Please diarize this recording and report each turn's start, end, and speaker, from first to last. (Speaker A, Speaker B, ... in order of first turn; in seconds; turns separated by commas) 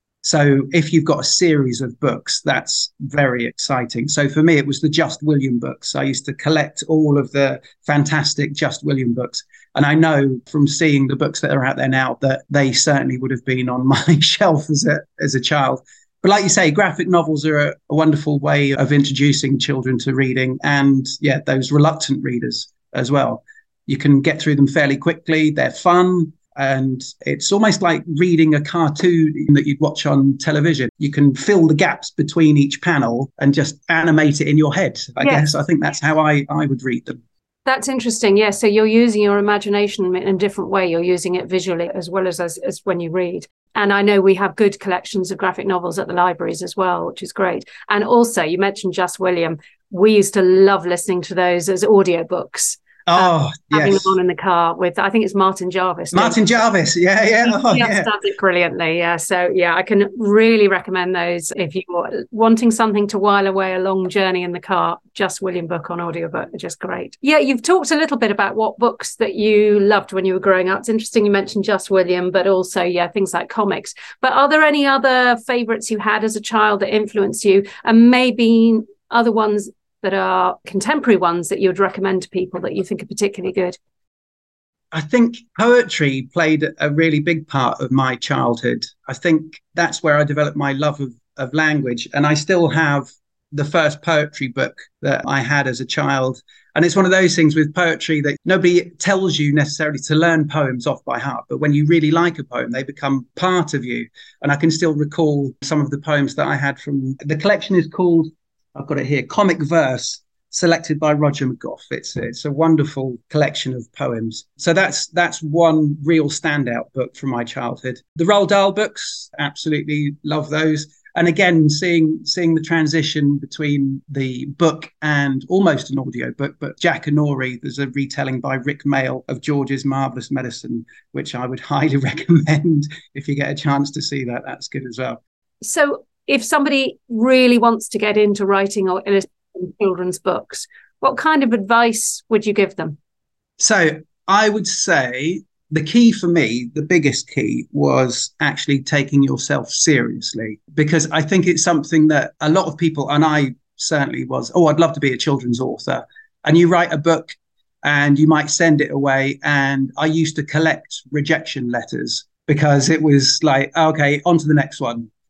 Speaker A: 0.2-37.2, Speaker B: 35.2-35.5, Speaker B: 37.6-56.4, Speaker A: 53.0-54.1, Speaker A: 56.1-58.1, Speaker B: 57.4-83.8, Speaker A: 84.9-135.2, Speaker B: 135.6-143.0, Speaker A: 143.6-165.1